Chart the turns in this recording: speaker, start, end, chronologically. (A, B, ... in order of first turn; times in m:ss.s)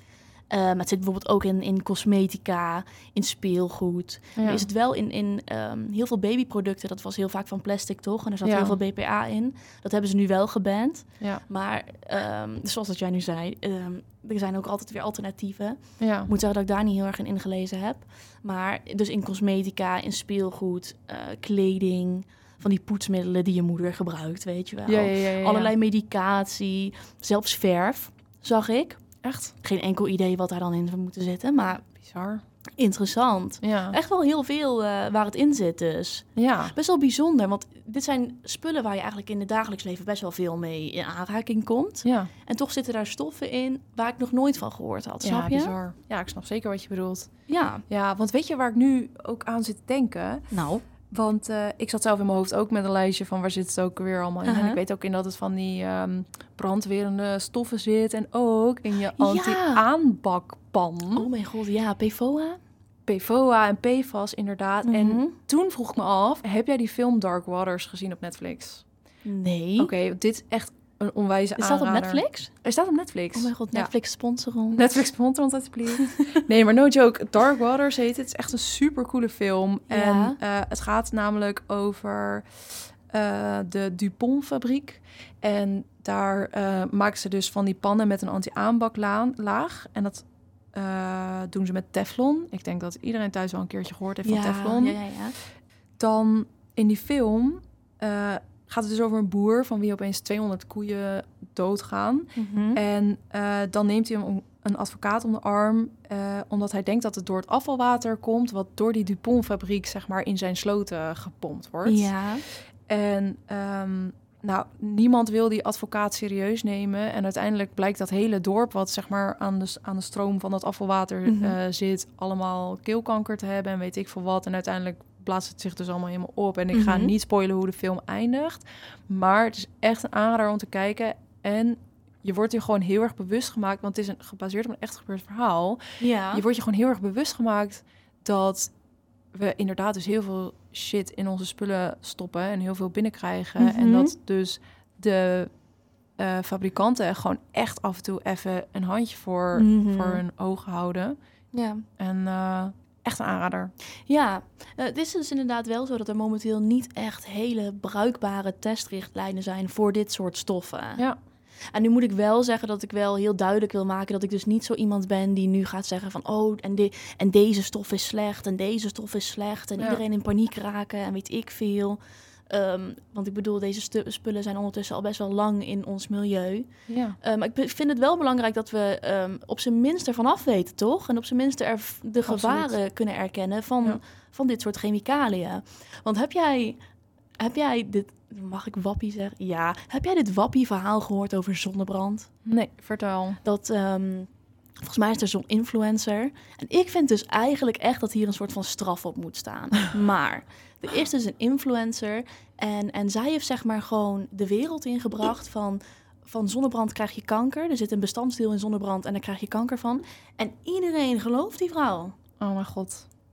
0:00.5-0:29.0 A
0:04.4-0:04.7 B
0:08.4-0:08.8 B
0:16.0-0:16.3 B
0:24.9-0:25.7 B
0:29.2-0:29.6 B
0:29.6-0:31.9 A
0:32.0-0:32.4 B
0:32.8-0:45.8 A
0:33.6-0:34.0 B
0:36.4-0:36.7 B
0:42.0-0:42.3 B
0:45.2-0:47.3 B
0:47.5-0:47.8 A
0:47.9-0:50.5 B
0:50.5-0:50.8 A
0:51.1-1:01.3 B
0:54.4-0:54.8 A
0:59.2-0:59.8 A
1:01.1-1:02.6 A
1:03.1-1:08.8 B
1:04.8-1:05.4 A
1:09.2-1:09.9 A
1:09.8-1:13.9 B
1:11.6-1:12.5 A
1:13.4-1:14.8 A
1:14.7-1:35.0 B
1:16.0-1:16.4 A
1:19.9-1:20.4 A
1:34.2-1:35.4 A
1:36.0-1:52.1 B
1:42.4-1:42.8 A
1:51.8-1:52.4 A
1:52.9-2:15.8 B
2:01.3-2:01.6 A
2:06.7-2:07.1 A
2:16.0-2:16.4 A
2:16.3-2:18.7 B
2:19.3-2:25.5 B
2:23.6-2:24.1 A
2:26.2-2:31.2 B
2:29.5-2:30.2 A
2:31.5-2:31.9 A
2:32.0-2:33.7 B
2:34.1-2:41.0 A
2:41.7-2:56.7 A
2:56.9-2:57.2 B
2:57.2-3:06.8 A
3:02.3-3:02.8 B
3:07.4-3:12.3 A
3:12.4-3:13.4 B
3:13.4-3:14.3 A
3:14.8-3:32.2 A
3:32.4-3:33.0 B